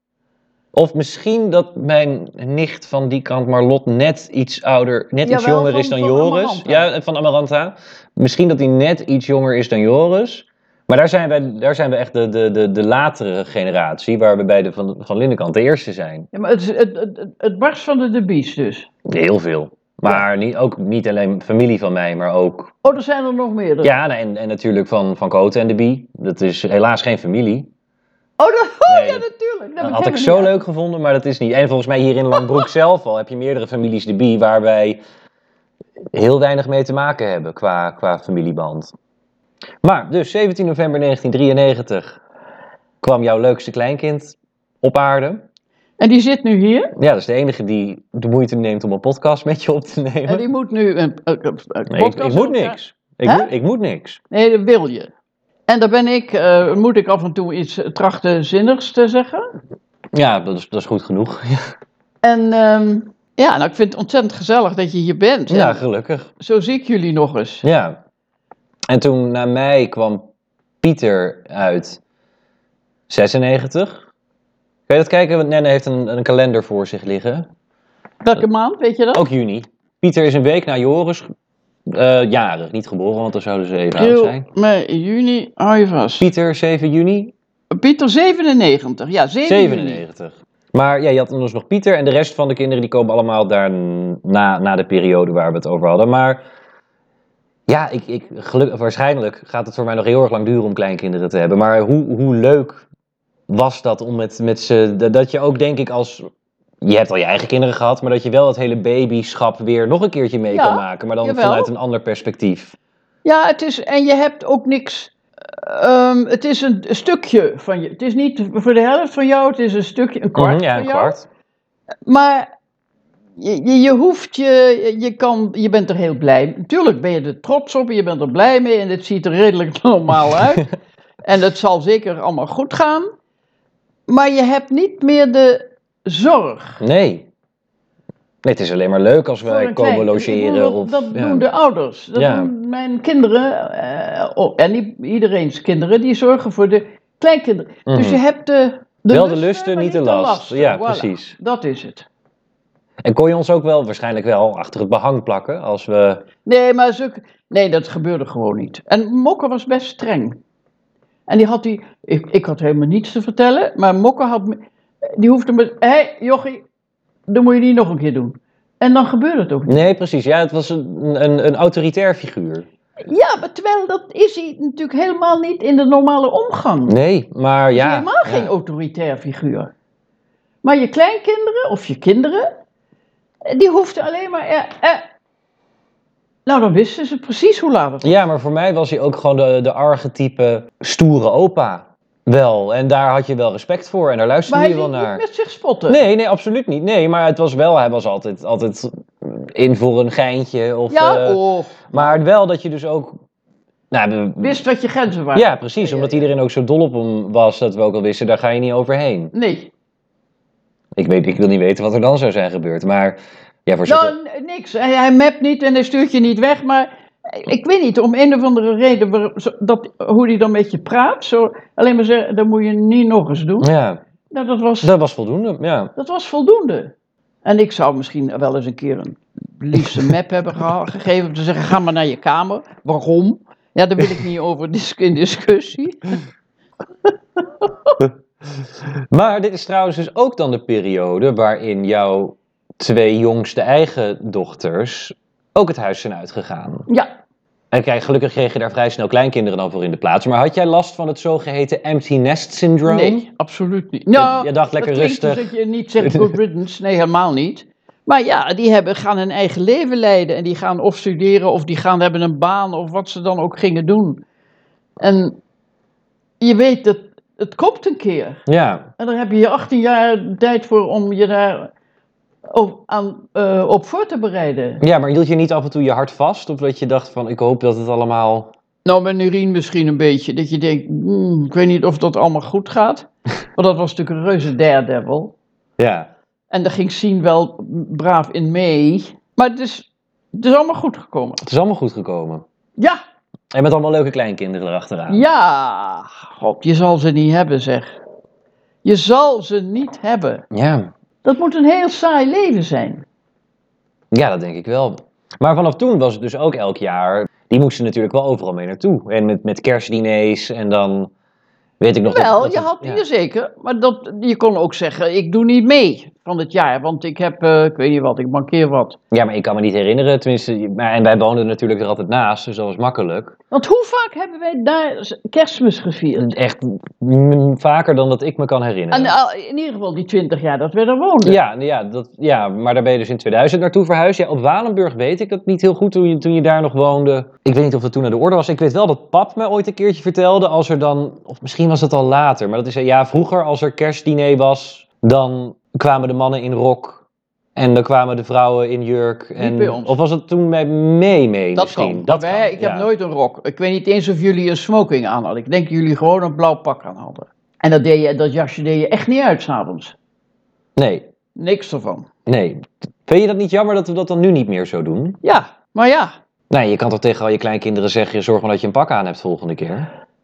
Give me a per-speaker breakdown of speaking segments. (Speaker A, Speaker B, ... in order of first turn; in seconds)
Speaker A: 0.7-16.3, 19.1-22.8, 23.8-27.7, 28.9-29.2, 29.8-35.0, 36.1-38.9, 39.8-42.2, 43.0-45.4, 47.0-50.5, 51.9-54.2, 60.1-61.7, 65.5-66.3, 67.6-68.0, 68.9-70.3, 70.8-72.0, 73.1-74.0, 74.9-77.5, 79.1-81.3, 81.9-84.5, 86.2-87.3, 89.5-96.4, 97.7-102.9, 103.5-106.3, 106.8-112.8, 120.3-121.3, 136.8-137.3, 138.4-141.4, 142.2-142.5, 147.9-148.2, 149.1-151.3, 153.0-156.2, 169.7-172.7, 176.9-178.5, 188.0-195.2, 195.9-203.2, 203.9-204.6, 205.3-209.3, 211.0-214.1, 223.6-224.0, 224.8-225.9, 239.1-246.9, 247.7-253.2, 254.2-256.4, 268.5-268.9, 274.8-278.5, 285.8-286.1, 291.4-292.4, 293.5-295.3, 300.5-300.9, 304.1-311.1, 311.8-313.0, 319.1-323.4, 326.2-329.2, 331.2-347.0, 347.6-352.9, 360.8-361.1, 362.3-365.2, 366.5-369.9
Speaker B: 5.2-6.9, 16.3-18.9, 22.8-23.9, 28.4-30.6, 46.0-46.9, 50.3-53.5, 54.3-55.1, 55.7-59.5, 62.2-65.8, 66.4-67.7, 78.2-79.2, 84.0-86.3, 87.7-90.0, 110.5-111.7, 113.2-121.2, 122.1-122.5, 123.4-130.7, 131.2-133.1, 134.1-136.8, 139.4-152.1, 156.4-160.4, 161.3-166.7, 167.3-169.8, 173.0-176.9, 177.7-179.7, 180.6-182.5, 183.5-185.1, 186.5-188.2, 194.5-196.0, 200.9-202.2, 204.4-206.2, 209.3-209.7, 213.8-223.7, 224.3-224.9, 226.0-226.9, 227.4-236.2, 237.6-237.9, 252.9-264.2, 265.0-265.4, 266.4-268.4, 269.0-271.7, 272.5-274.8, 278.9-285.3, 286.5-291.4, 295.1-298.0, 298.8-300.4, 301.2-303.1, 312.1-319.0, 323.5-326.3, 328.9-331.4, 349.4-350.0, 351.6-359.9, 361.4-362.1, 365.2-366.1